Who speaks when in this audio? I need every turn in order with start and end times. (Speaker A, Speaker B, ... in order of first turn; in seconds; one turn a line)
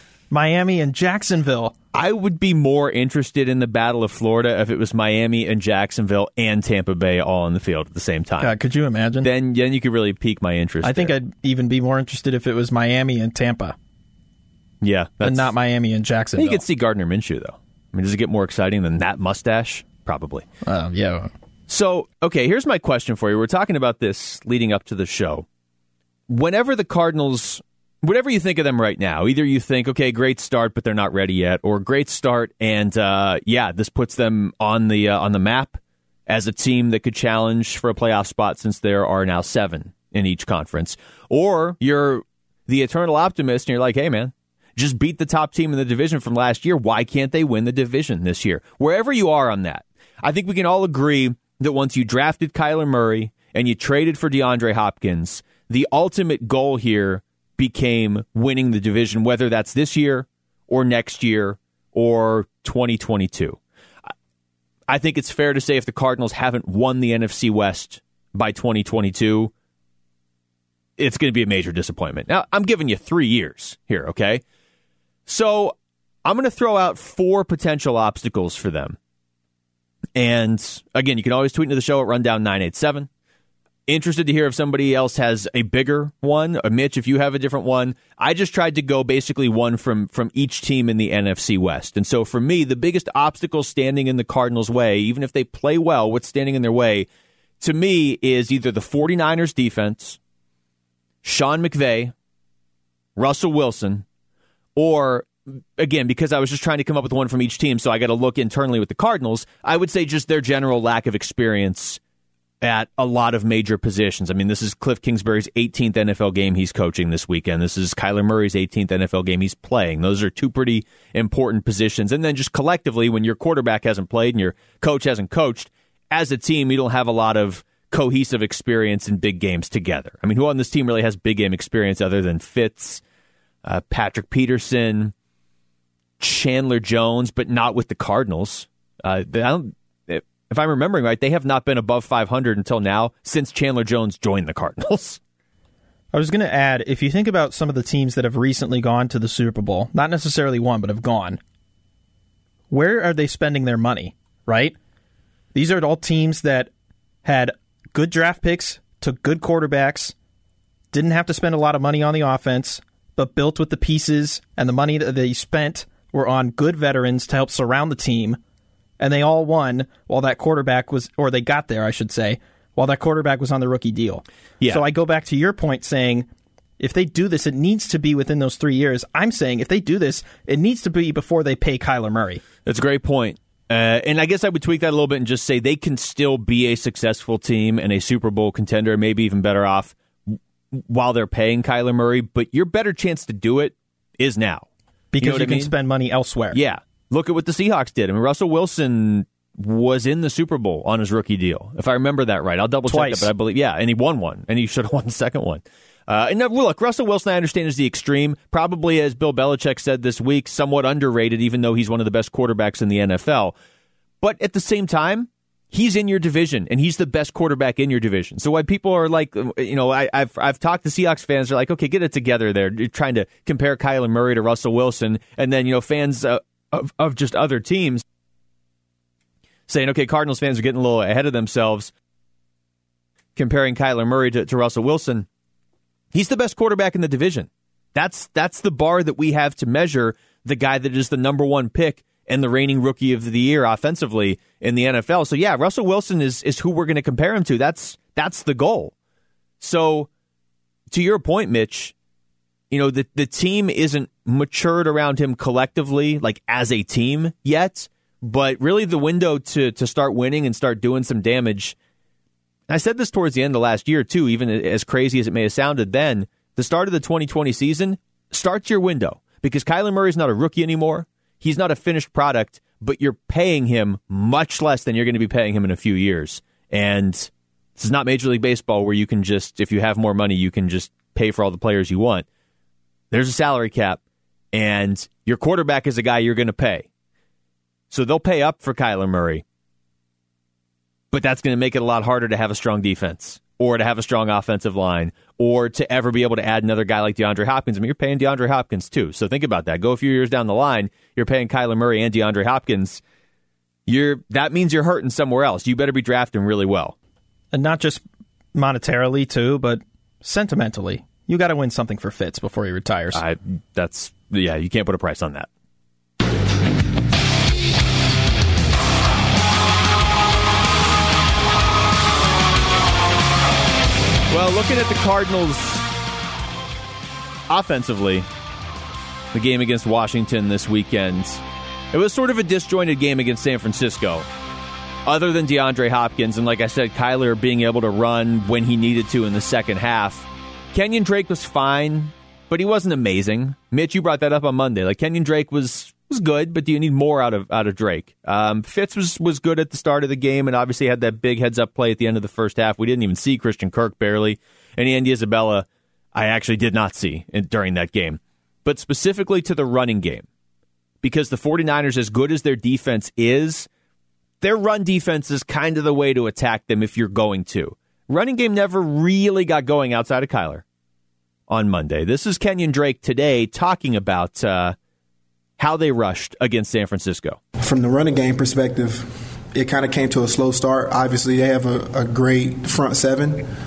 Speaker A: 0.3-1.7
Speaker B: 1.9-8.5
Speaker A: 8.4-9.3
Speaker B: 9.2-11.2
Speaker A: 10.8-13.8
Speaker B: 14.8-15.5
Speaker A: 15.2-16.6
Speaker B: 16.4-20.5
Speaker A: 20.7-21.3
Speaker B: 21.7-25.5
Speaker B: 26.3-63.6
Speaker B: 64.9-69.5
Speaker B: 71.0-74.4
Speaker B: 75.3-79.0
Speaker B: 80.2-83.1
Speaker B: 83.9-97.1
Speaker B: 97.6-100.2
Speaker B: 101.2-102.1
Speaker B: 103.2-104.0
Speaker B: 104.8-112.0
Speaker B: 112.6-133.0
Speaker B: 133.7-135.1
Speaker B: 136.2-145.2
Speaker A: 146.1-151.4
Speaker A: 152.7-154.8
Speaker A: 155.5-156.7
Speaker A: 157.2-160.1
Speaker A: 160.9-168.4
Speaker A: 169.0-176.3
Speaker A: 176.8-182.4
Speaker B: 182.7-194.7
Speaker A: 195.1-196.6
Speaker B: 195.2-195.7
Speaker B: 196.5-213.5
Speaker A: 202.9-203.3
Speaker B: 214.2-228.0
Speaker B: 229.7-231.9
Speaker B: 233.4-235.3
Speaker B: 236.1-248.9
Speaker B: 249.6-250.1
Speaker B: 250.9-251.9
Speaker B: 252.7-261.8
Speaker B: 262.7-282.2
Speaker B: 283.1-284.0
Speaker B: 284.5-286.9
Speaker B: 287.9-289.4
Speaker B: 291.1-303.0
Speaker B: 303.9-306.9
Speaker A: 307.5-313.2
Speaker B: 313.1-315.5
Speaker B: 324.3-325.9
Speaker B: 327.5-328.3
Speaker B: 329.3-334.3
Speaker B: 335.1-360.2
Speaker B: 361.0-363.7
Speaker B: 364.4-370.6
Speaker B: 371.5-374.8
Speaker B: 375.6-377.4
Speaker C: 377.6-383.5